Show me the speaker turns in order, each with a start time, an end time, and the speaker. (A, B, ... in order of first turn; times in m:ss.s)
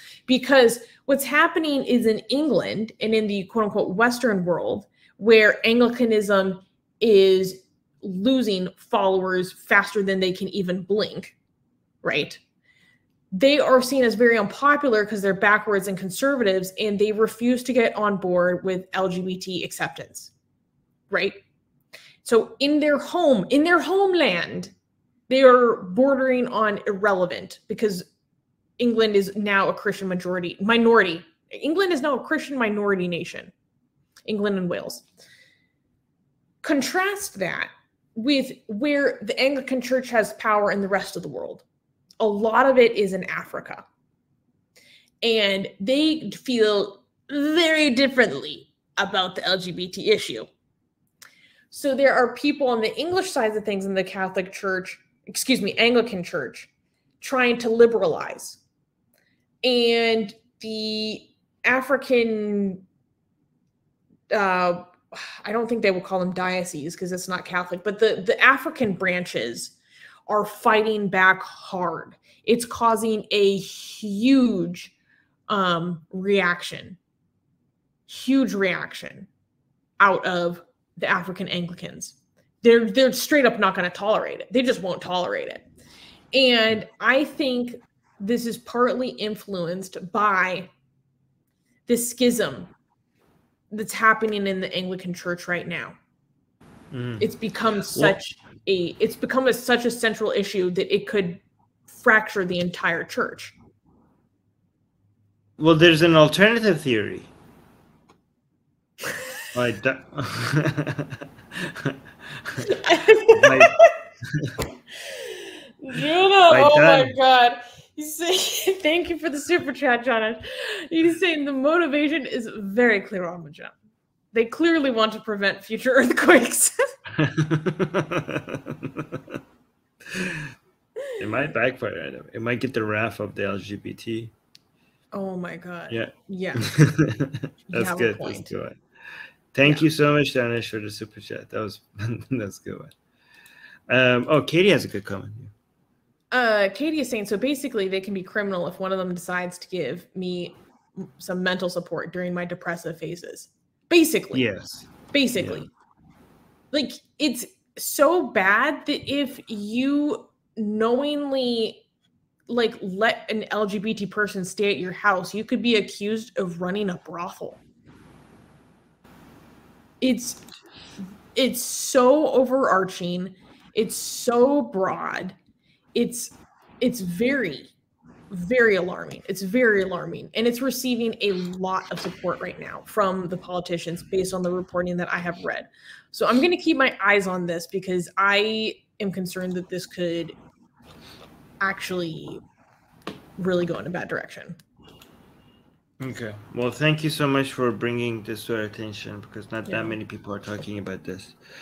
0:00.3-0:11.4 A
0:12.0-0:12.4 A
0:13.3-0:20.3 A
0:21.1-0:21.4 A
0:22.2-0:24.7 A
0:25.3-0:28.1 A
0:28.8-0:33.5 A
0:34.3-0:35.0 A
0:36.6-0:41.6 A
0:42.2-0:43.8 A
0:45.2-0:50.5 A
0:51.7-0:58.6 A
0:59.6-1:02.8 A
1:04.3-1:09.7 A
1:10.3-1:14.9 A
1:15.5-1:17.0 A
1:18.1-1:19.3 A
1:20.0-1:25.6 A
1:26.3-1:30.7 A
1:31.9-1:32.7 A
1:33.7-1:36.0 A
1:36.9-1:37.3 B
1:37.2-1:43.5 A
1:45.6-1:47.3 B
1:49.5-1:52.6 B
1:52.6-1:53.9 A
1:53.3-1:53.7 B
1:55.1-2:03.7 A
1:56.5-1:57.1 B
2:04.3-2:06.7 A
2:07.2-2:09.2 B
2:10.1-2:10.4 B
2:11.2-2:14.3 B
2:15.1-2:16.7 A
2:15.9-2:18.8 B
2:17.7-2:18.5 A
2:19.5-2:22.9 B
2:23.9-2:25.5 B
2:26.3-2:34.4 A
2:34.3-2:35.6 B
2:35.1-2:35.7 A
2:36.7-2:41.8 A
2:42.5-2:47.6 A
2:50.0-2:50.4 A
2:51.3-2:55.4 A
2:55.9-2:57.7 A
2:58.3-3:10.4 A
3:11.6-3:12.4 A
3:13.4-3:14.6 A
3:16.0-3:21.4 B
3:19.7-3:20.0 A